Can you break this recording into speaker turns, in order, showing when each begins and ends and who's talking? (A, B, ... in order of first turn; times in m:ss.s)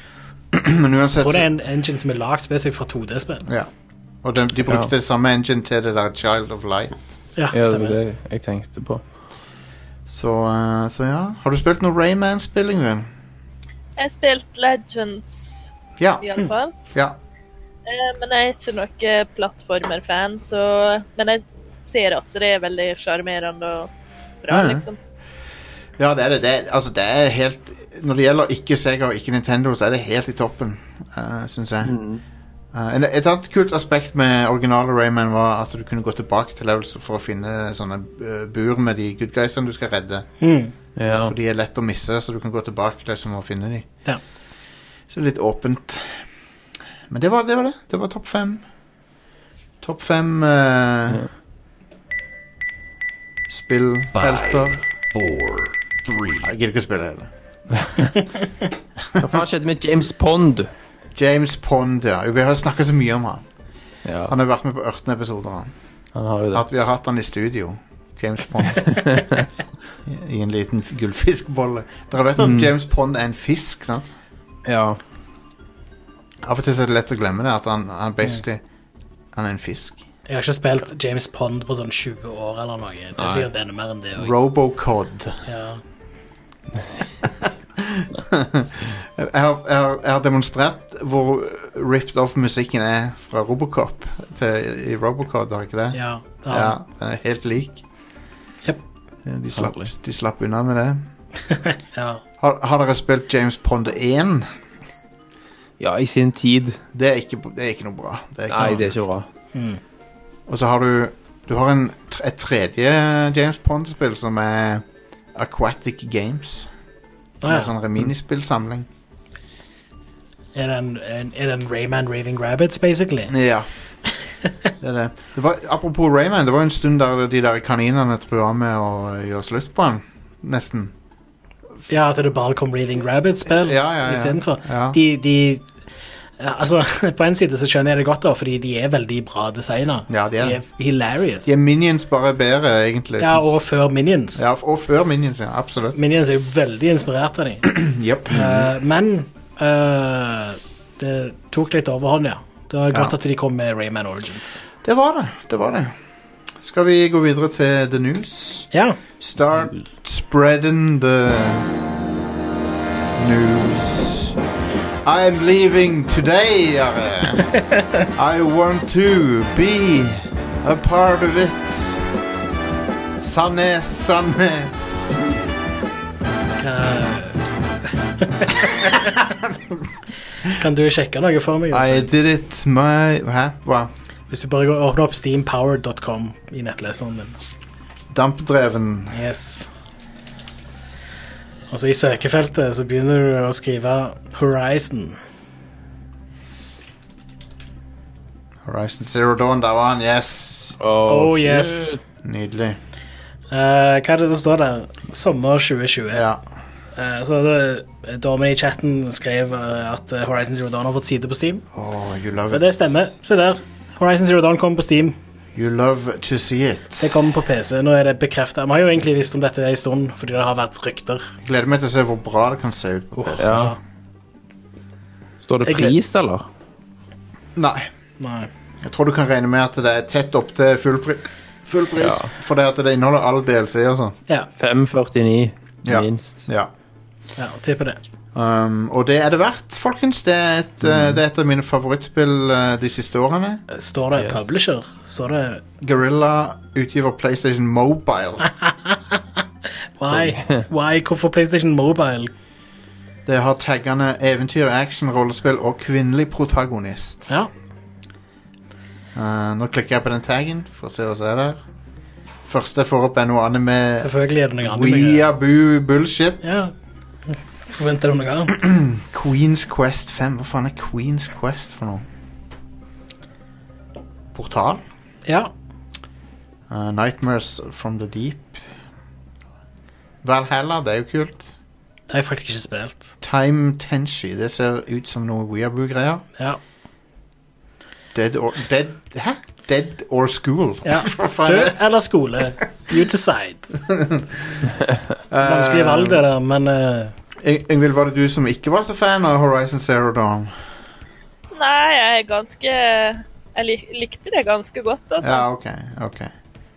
0:00.5-0:01.5 A
0:01.2-0:03.5 B
0:04.2-0:07.1 A
0:07.4-0:08.0 B
0:07.5-0:09.0 C
0:10.1-0:13.1 A
0:14.0-0:16.7 D
0:16.0-0:16.3 A
0:16.9-0:17.2 A
0:17.9-0:23.9 D
0:24.4-0:25.0 D
0:24.5-0:24.9 A
0:26.0-0:32.0 A
0:31.8-0:32.2 C
0:32.7-0:40.3 A
0:40.4-0:40.7 B
0:41.0-0:41.3 C
0:41.1-0:43.9 A
0:45.1-0:46.2 A
0:47.1-0:48.6 A
0:49.8-0:51.2 A
0:53.5-0:54.8 A
0:54.2-0:56.5 E
0:56.4-0:57.3 A
0:59.2-0:59.4 A
0:59.2-1:00.7 C
1:01.2-1:03.4 A
1:04.1-1:04.3 C
1:04.3-1:05.7 A
1:06.2-1:06.6 C
1:06.5-1:09.2 A
1:08.9-1:09.4 C
1:10.0-1:14.1 A
1:12.4-1:12.7 C
1:14.7-1:15.0 C
1:16.4-1:18.6 A
1:19.3-1:20.0 A
1:20.3-1:24.3 B
1:23.2-1:23.5 C
1:24.2-1:25.4 A
1:25.5-1:25.8 B
1:27.4-1:37.8 A
1:35.9-1:36.8 B
1:39.2-1:41.0 A
1:39.6-1:39.9 C
1:41.5-1:42.2 B
1:42.4-1:44.5 A
1:45.8-1:46.8 C
1:46.9-1:49.0 A
1:48.5-1:49.3 C
1:49.5-1:49.8 B
1:50.5-1:56.7 A
1:57.4-1:57.7 B
1:57.4-1:58.9 A
2:00.6-2:03.3 B
2:03.3-2:03.7 A
2:04.8-2:10.9 A
2:11.9-2:15.7 B
2:13.5-2:15.0 A
2:16.4-2:21.5 B
2:20.1-2:20.6 A
2:21.4-2:23.5 A
2:23.2-2:24.5 B
2:24.4-2:26.0 A
2:26.0-2:27.7 B
2:27.6-2:28.6 A
2:28.3-2:34.6 B
2:34.8-2:35.9 A
2:36.6-2:38.7 A
2:38.7-2:39.0 B
2:39.2-2:41.7 A
2:43.2-2:44.4 A
2:45.0-2:47.6 A
2:48.2-2:52.0 A
2:53.2-2:55.2 A
2:56.6-2:57.4 B
2:58.2-2:59.1 B
3:00.4-3:02.1 B
3:01.7-3:03.9 A
3:04.3-3:07.4 B
3:08.1-3:09.2 A
3:09.1-3:09.7 B
3:11.7-3:15.2 B
3:18.7-3:20.8 A
3:20.8-3:22.0 C
3:21.1-3:22.0 B
3:22.2-3:22.8 A
3:23.5-3:26.2 B
3:26.1-3:26.4 A
3:27.0-3:31.6 B
3:31.7-3:32.7 A
3:32.5-3:35.2 B
3:35.6-3:37.1 A
3:37.0-3:41.3 B
3:41.4-3:43.7 A
3:43.2-3:43.8 B
3:43.4-3:43.7 C
3:45.5-3:46.5 C
3:45.7-3:45.9 B
3:47.6-3:47.9 A
3:48.2-3:48.5 B
3:48.8-3:54.2 A
3:52.0-3:52.3 C
3:54.6-3:56.4 C
3:55.8-3:56.7 A
3:57.4-3:58.0 B
3:58.4-4:03.6 A
4:00.8-4:01.2 C
4:03.7-4:05.6 B
4:05.8-4:08.5 A
4:08.6-4:09.2 B
4:10.0-4:12.3 B
4:10.1-4:10.6 C
4:13.3-4:17.2 A
4:19.2-4:21.6 A
4:22.4-4:26.4 A
4:24.0-4:25.2 B
4:26.4-4:26.7 B
4:27.3-4:28.5 B
4:28.5-4:32.0 A
4:34.3-4:34.8 A
4:36.7-4:38.7 A
4:40.2-4:41.4 A
4:42.1-4:43.1 B
4:43.2-4:46.2 A
4:48.1-4:51.8 A
4:50.8-4:53.8 B
4:53.8-4:54.7 A
4:55.3-4:56.2 A
4:55.4-4:57.2 B
4:57.4-5:00.5 A
5:01.5-5:05.4 D
5:05.2-5:06.3 A